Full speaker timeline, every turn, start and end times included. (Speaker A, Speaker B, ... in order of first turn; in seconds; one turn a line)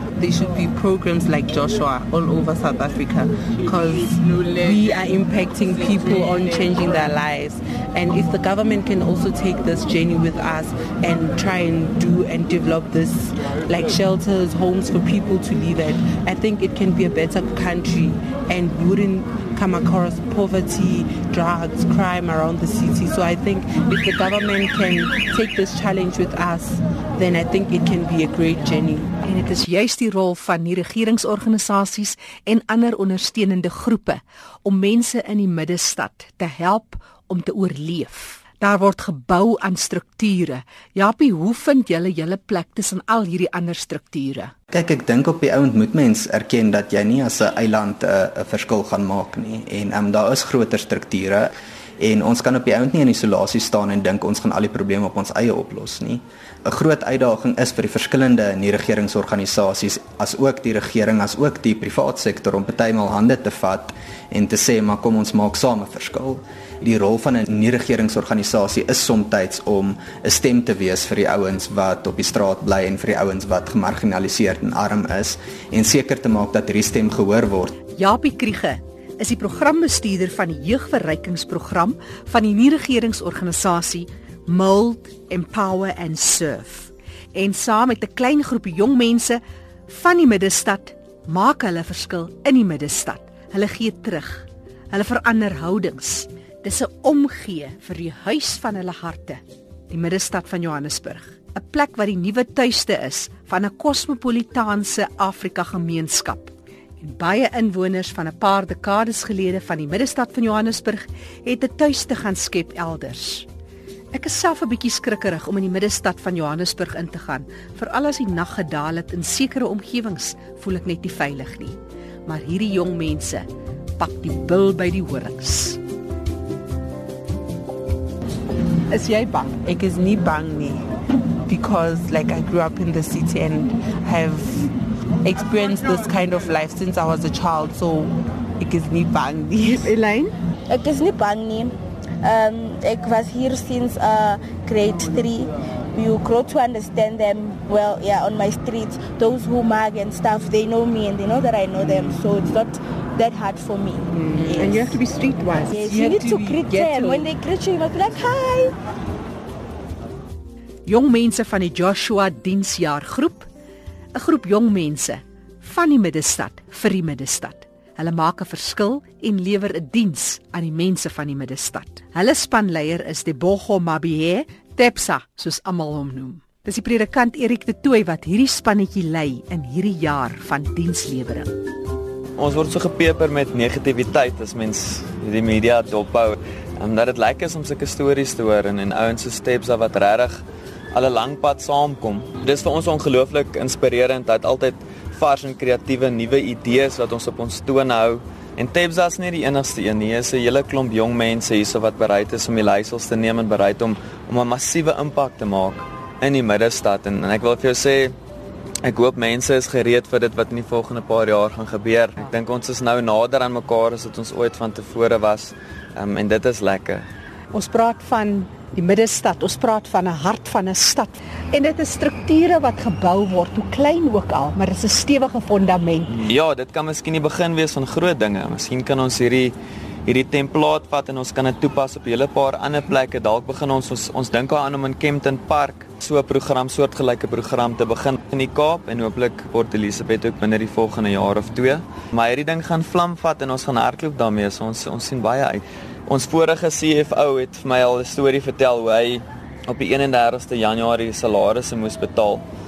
Speaker A: 0.1-29.1
Speaker B: 29.2-44.5
Speaker C: 44.7-77.8
Speaker B: 77.9-113.5
Speaker B: 114.1-123.5
Speaker B: 124.0-125.8
Speaker B: 128.9-129.5
Speaker A: 129.6-130.8
Speaker A: 131.5-134.7
Speaker A: 135.2-139.9
Speaker B: 139.7-140.3
Speaker D: 140.7-155.0
Speaker B: 154.2-157.3
Speaker A: 154.4-154.7
Speaker D: 155.7-158.7
Speaker A: 155.8-156.6
Speaker B: 160.8-163.5
Speaker B: 164.1-181.5
Speaker E: 182.4-190.4
Speaker E: 190.9-208.1
Speaker E: 208.8-217.1
Speaker B: 217.5-226.2
Speaker E: 226.1-229.5
Speaker E: 230.1-252.4